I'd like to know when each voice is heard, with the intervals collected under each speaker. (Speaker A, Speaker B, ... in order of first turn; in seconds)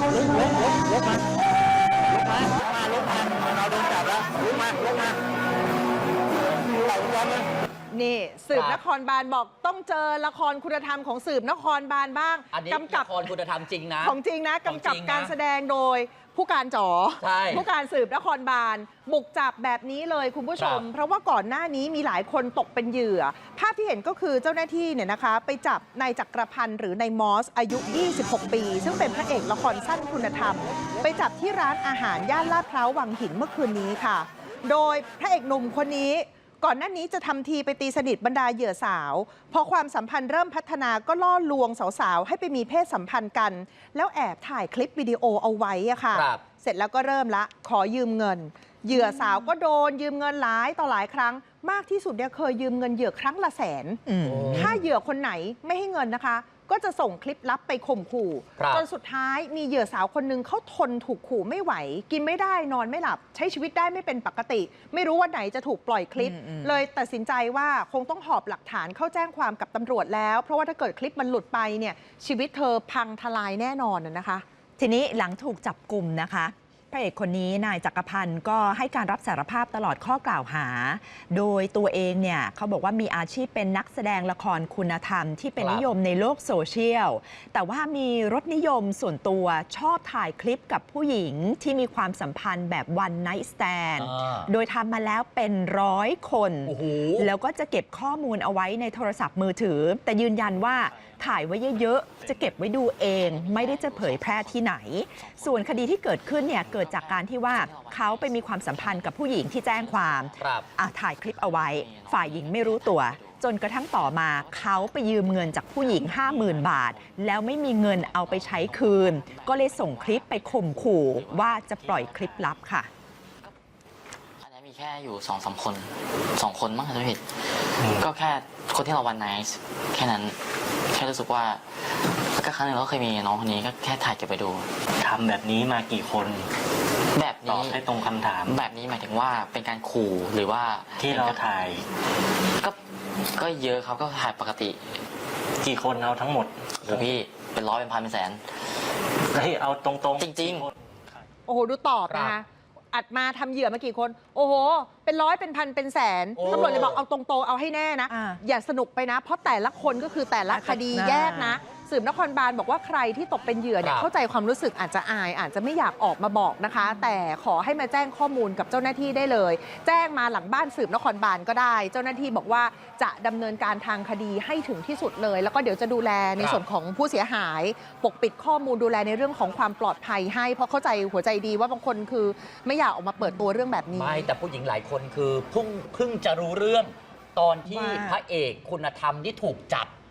Speaker A: 7.9-13.2, 14.0-74.4, 151.5-184.3
Speaker B: 8.5-8.8, 12.5-15.3, 17.2-17.6, 20.6-20.8, 46.1-46.4, 54.2-54.8, 58.6-58.8, 85.6-85.8, 94.0-94.5, 96.7-97.3, 110.4-110.7, 152.1-152.3, 156.4-157.0, 163.8-164.1, 183.9-189.9
Speaker C: 48.9-49.4, 54.1-54.7, 66.2-66.8, 74.8-122.9, 158.1-158.4, 160.5-161.6, 187.7-188.2
Speaker D: 103.0-122.7, 124.4-134.8, 137.1-137.8, 138.4-141.4, 142.6-145.0, 146.8-148.5, 150.2-150.7
Speaker E: 127.8-128.1, 135.0-136.5, 137.4-138.6, 141.0-141.8, 145.6-147.1, 149.3-150.7